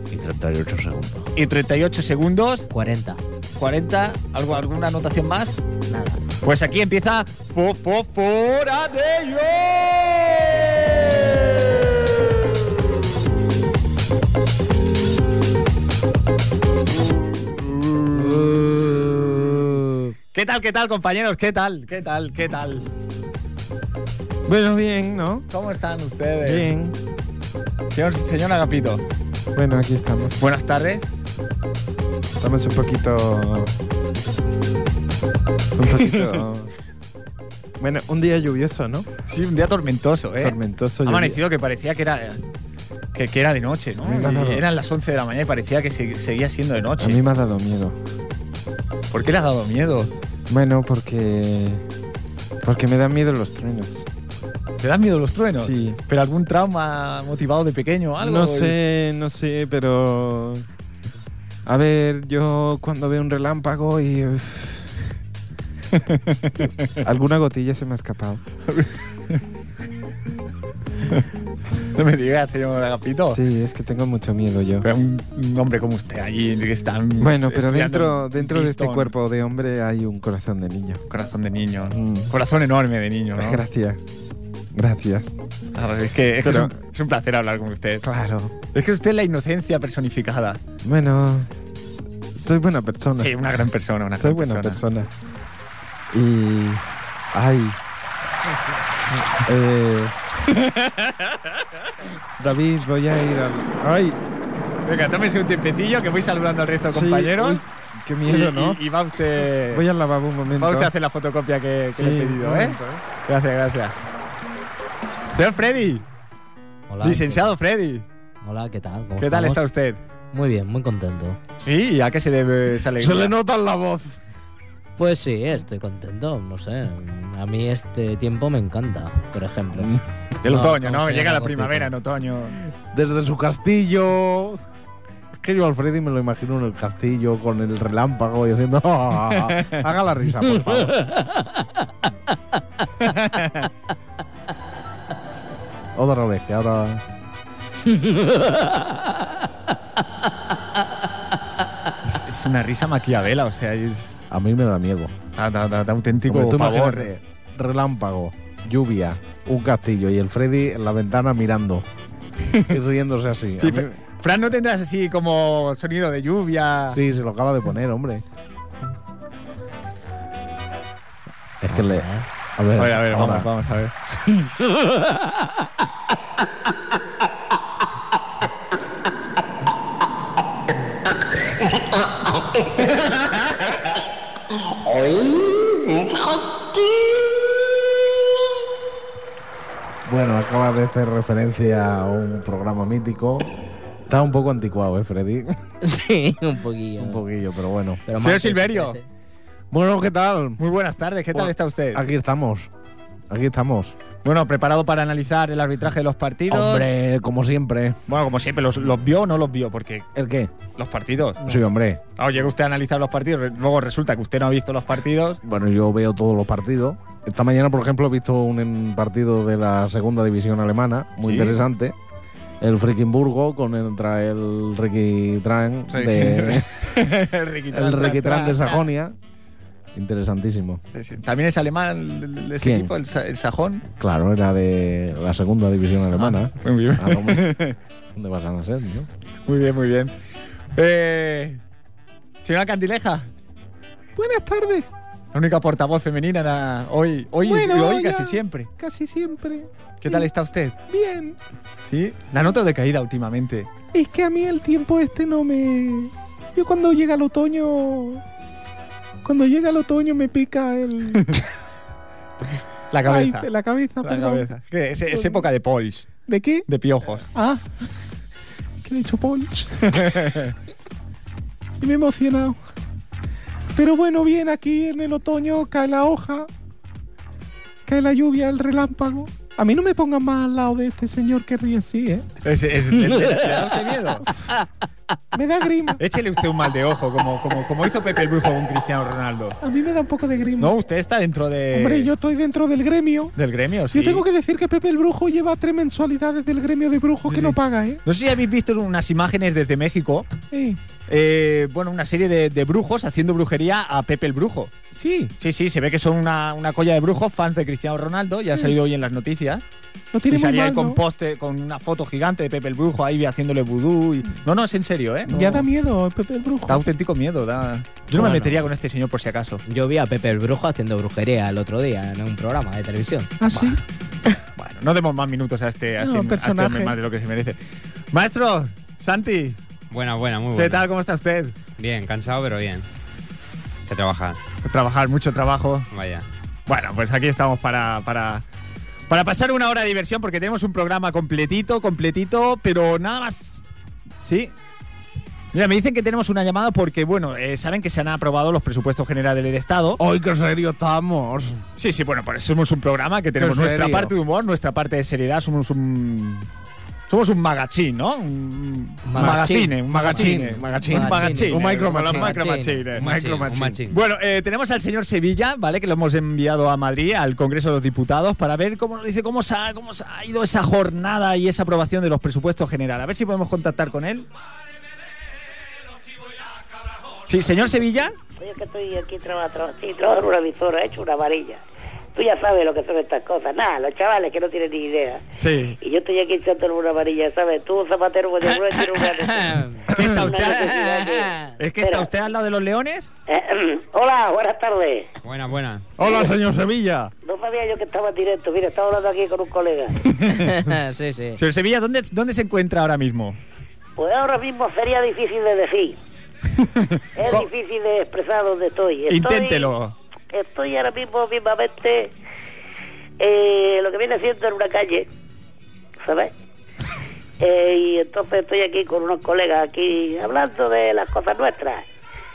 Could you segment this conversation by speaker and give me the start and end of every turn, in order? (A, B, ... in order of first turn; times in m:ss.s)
0:01.4-0:02.7 A
0:02.7-0:03.2 B
0:03.6-0:05.6 A
0:05.9-0:06.2 B
0:06.4-0:11.5 A
0:17.5-0:18.5 A
0:19.8-0:20.1 B
0:20.3-0:22.9 A
0:24.5-0:25.5 C
0:25.5-0:26.7 A
0:26.4-0:27.0 C
0:27.9-0:29.0 A
0:29.5-0:30.5 C
0:30.4-0:31.0 A
0:32.4-0:33.7 C
0:35.8-0:36.7 C
0:36.0-0:36.3 A
0:37.8-0:39.1 C
0:39.3-0:42.4 A
0:40.4-0:41.4 C
0:43.1-0:47.2 A
0:44.0-0:44.7 C
0:47.0-0:48.0 C
0:49.1-0:50.1 A
0:50.5-0:51.8 C
0:52.6-0:54.1 C
0:54.8-0:58.8 A
0:55.5-0:56.0 C
0:58.2-1:00.6 C
1:01.7-1:04.9 C
1:07.0-1:08.4 C
1:08.7-1:09.4 A
1:11.9-1:13.4 A
1:13.3-1:14.9 C
1:14.8-1:19.1 A
1:17.2-1:21.0 C
1:21.1-1:23.6 A
1:21.9-1:22.3 C
1:23.4-1:24.0 C
1:24.7-1:25.3 C
1:25.8-1:28.0 A
1:26.4-1:26.8 C
1:28.1-1:28.5 D
1:28.7-1:30.6 A
1:30.8-1:31.5 C
1:32.4-1:33.3 C
1:33.2-1:34.8 A
1:34.2-1:35.1 C
1:36.1-1:37.8 C
1:39.4-1:40.2 C
1:40.9-1:41.4 A
1:42.4-1:44.2 C
1:44.8-1:47.6 A
1:46.8-1:48.8 C
1:48.3-1:49.9 A
1:49.6-1:50.9 C
1:50.6-1:54.0 A
1:52.0-1:53.0 C
1:55.3-1:56.0 A
1:56.9-1:57.5 B
1:57.0-1:58.0 A
1:58.4-1:59.6 B
1:59.2-2:00.0 A
2:00.3-2:01.4 B
2:01.6-2:03.3 A
2:03.0-2:04.2 D
2:05.0-2:09.9 B
2:09.8-2:10.0 D
2:10.4-2:12.6 A
2:10.4-2:11.9 B
2:12.9-2:14.6 D
2:15.4-2:21.0 D
2:19.3-2:19.8 A
2:20.7-2:21.6 B
2:23.0-2:23.7 A
2:26.0-2:27.0 D
2:27.9-2:28.8 B
2:32.0-2:34.2 A
2:34.3-2:35.1 D
2:35.4-2:37.1 A
2:36.3-2:41.9 D
2:42.6-2:43.9 D
2:43.6-2:47.0 A
2:46.9-2:48.2 D
2:51.6-2:53.5 D
2:51.7-2:52.2 B
2:52.8-2:54.5 A
3:10.1-3:13.5 D
3:14.1-3:15.5 D
3:15.8-3:17.2 B
3:17.0-3:18.0 D
3:18.1-3:19.0 B
3:18.2-3:19.0 A
3:19.7-3:20.6 D
3:20.6-3:22.0 A
3:21.3-3:22.7 D
3:23.3-3:24.0 D
3:24.2-3:26.9 A
3:26.5-3:28.0 D
3:28.1-3:30.1 A
3:30.2-3:30.5 D
3:30.8-3:31.6 A
3:31.4-3:32.0 D
3:32.2-3:35.4 A
3:35.4-3:42.0 D
3:41.2-3:41.6 A
3:42.6-3:46.7 D
3:45.9-3:48.8 A
3:47.7-3:49.2 D
3:50.0-3:50.8 D
3:50.9-3:53.9 A
3:52.6-3:52.9 D
3:54.0-3:57.6 D
3:56.2-3:57.8 A
3:58.1-3:59.1 D
3:59.5-4:00.1 A
4:00.8-4:01.6 A
4:02.4-4:03.3 A
4:04.2-4:04.9 D
4:05.3-4:08.7 A
4:07.4-4:10.3 D
4:10.0-4:10.8 A
4:10.9-4:11.4 D
4:11.9-4:13.7 A
4:13.9-4:18.2 D
4:19.2-4:21.4 D
4:22.9-4:23.5 A
4:23.0-4:24.5 D
4:24.0-4:27.3 A
4:25.1-4:25.4 D
4:26.3-4:26.7 D
4:27.3-4:27.6 D
4:28.8-4:30.2 D
4:29.9-4:30.5 A
4:31.8-4:32.6 D
4:33.7-4:36.5 D
4:37.9-4:42.3 D
4:42.4-4:44.3 A
4:43.1-4:43.6 B
4:45.3-4:46.0 D
4:46.0-4:49.6 A
4:49.6-4:50.7 D
4:50.6-4:52.1 A
4:51.7-4:53.4 D
4:53.4-4:54.2 A
4:53.9-4:58.0 D
4:57.3-5:00.3 A
5:00.5-5:00.8 D
5:01.1-5:04.7 A
5:05.0-5:05.3 D
5:05.4-5:09.6 A
5:10.1-5:11.0 D
5:10.3-5:15.7 A
5:15.3-5:16.9 D
5:16.7-5:19.6 A
5:18.2-5:18.6 B
5:19.7-5:23.3 B
5:23.4-5:23.8 D
5:24.6-5:27.6 A
5:26.0-5:27.0 D
5:28.1-5:29.6 A
5:29.9-5:30.9 E
5:30.6-5:31.5 A
5:31.8-5:32.9 E
5:33.9-5:34.4 E
5:34.6-5:35.9 A
5:35.9-5:36.3 E
5:36.7-5:38.4 A
5:39.1-5:43.6 A
5:44.2-5:44.5 A
5:45.5-5:50.0 A
5:50.0-5:51.6 D
5:51.8-5:56.5 A
5:53.4-5:54.2 D
5:57.1-6:03.3 A
5:59.1-6:02.9 B
5:59.9-6:02.4 D
6:03.0-6:03.8 D
6:03.0-6:04.0 E
6:03.9-6:14.3 A
6:17.3-6:18.1 A
6:18.4-6:21.6 F
6:22.2-6:25.2 F
6:25.3-6:25.8 A
6:25.8-6:31.3 F
6:29.0-6:29.9 B
6:29.9-6:33.1 A
6:30.7-6:31.5 B
6:31.8-6:32.1 F
6:33.3-6:35.1 F
6:35.2-6:35.9 E
6:36.0-6:37.1 C
6:37.2-6:40.0 F
6:40.3-6:41.4 B
6:41.4-6:43.4 A
6:44.0-6:46.0 F
6:46.6-6:47.4 A
6:47.2-6:49.7 F
6:49.1-6:49.9 A
6:50.3-6:52.1 F
6:53.2-6:55.1 F
6:56.0-6:56.3 F
6:57.4-7:01.9 F